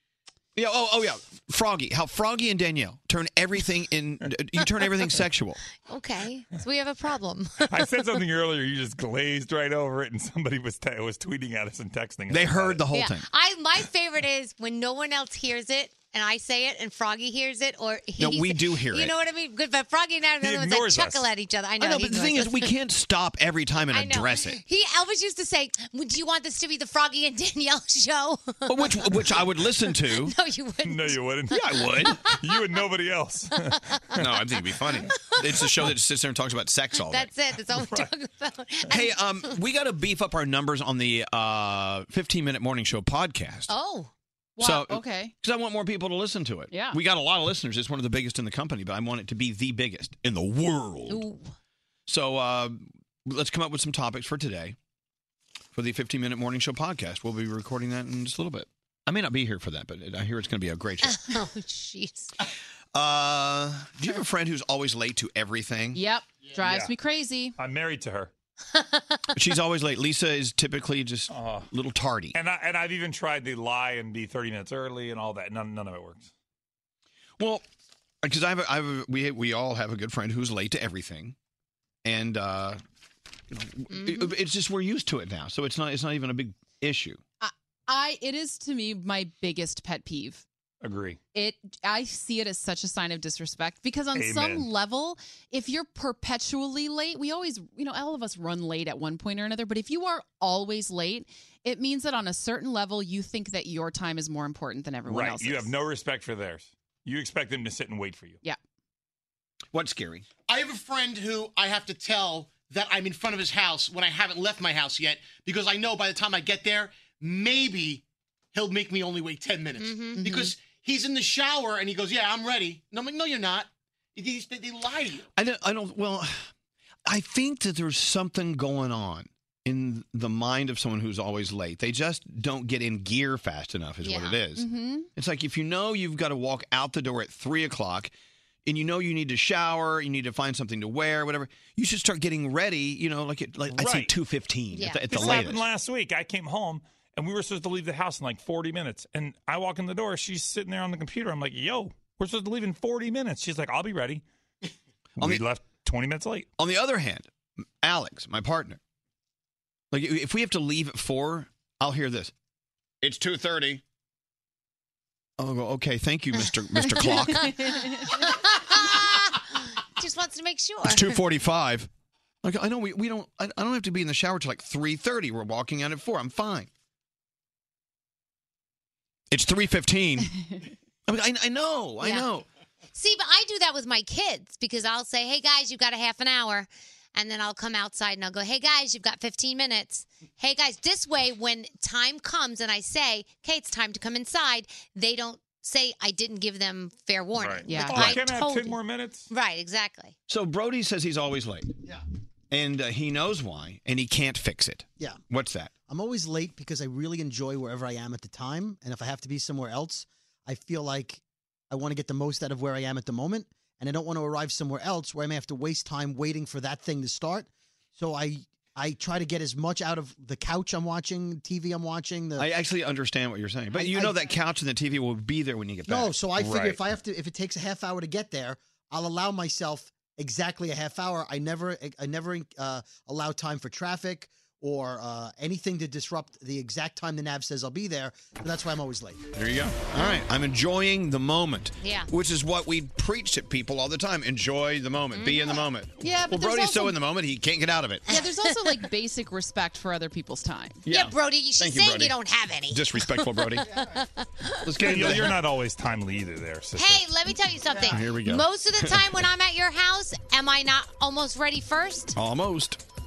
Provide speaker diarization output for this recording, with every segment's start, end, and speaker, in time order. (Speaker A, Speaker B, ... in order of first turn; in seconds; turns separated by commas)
Speaker A: 0.5-5.6, Speaker B: 5.8-8.2, Speaker C: 7.7-12.8, Speaker A: 12.3-13.3, Speaker B: 12.9-22.7, Speaker A: 18.2-19.1, Speaker C: 20.4-21.3, Speaker A: 21.8-24.6, Speaker B: 23.9-31.2, Speaker A: 28.7-30.3, Speaker C: 30.8-33.7, Speaker A: 31.5-32.1, Speaker B: 32.1-32.6, Speaker B: 33.7-34.0, Speaker A: 34.2-37.3, Speaker B: 35.1-35.6, Speaker B: 37.0-39.6, Speaker C: 37.7-38.1, Speaker A: 38.9-43.7, Speaker B: 43.7-44.1, Speaker D: 44.6-45.3, Speaker A: 44.6-51.3, Speaker D: 46.7-47.0, Speaker B: 51.1-51.4, Speaker A: 52.1-54.8, Speaker A: 55.7-61.3, Speaker B: 61.0-62.3, Speaker A: 62.9-66.0, Speaker D: 65.9-67.5, Speaker C: 66.6-66.9, Speaker C: 67.6-68.3, Speaker B: 68.7-69.2, Speaker A: 69.3-72.3, Speaker C: 71.3-71.7, Speaker C: 72.3-76.3, Speaker A: 77.4-77.6, Speaker A: 78.2-81.3, Speaker A: 82.0-82.8, Speaker A: 83.5-87.2, Speaker B: 83.9-84.3, Speaker D: 87.4-90.4, Speaker C: 90.8-91.2, Speaker D: 91.3-105.7, Speaker C: 94.1-94.7, Speaker C: 105.1-108.4, Speaker A: 109.7-110.2, Speaker E: 110.5-118.0, Speaker E: 118.5-125.2, Speaker B: 119.8-120.5, Speaker A: 125.3-126.4, Speaker A: 127.1-138.1, Speaker B: 134.0-134.4, Speaker D: 134.6-135.1, Speaker A: 138.6-145.7, Speaker C: 143.7-144.1, Speaker B: 144.7-145.5, Speaker C: 145.1-154.2, Speaker C: 155.2-156.5, Speaker A: 156.6-158.8, Speaker A: 159.9-162.3, Speaker A: 163.0-163.8, Speaker A: 165.4-167.6, Speaker B: 167.2-171.2, Speaker A: 170.8-171.9, Speaker A: 172.4-176.7, Speaker A: 179.3-180.3, Speaker A: 181.1-182.4, Speaker B: 182.0-182.3, Speaker B: 182.9-200.1, Speaker C: 197.4-199.3, Speaker D: 197.7-198.2, Speaker A: 200.3-201.7, Speaker A: 202.5-205.7, Speaker F: 205.9-222.5, Speaker A: 222.4-226.8, Speaker F: 223.7-224.3, Speaker F: 225.9-239.2, Speaker A: 239.3-248.1, Speaker B: 241.8-242.1, Speaker B: 245.1-245.6, Speaker D: 246.0-246.9, Speaker D: 248.1-250.8, Speaker B: 248.1-248.8, Speaker A: 250.8-252.2, Speaker B: 250.9-255.1, Speaker A: 252.7-253.7, Speaker A: 254.6-255.4, Speaker C: 254.8-257.1, Speaker B: 256.7-262.1, Speaker A: 257.9-259.2, Speaker A: 262.1-262.8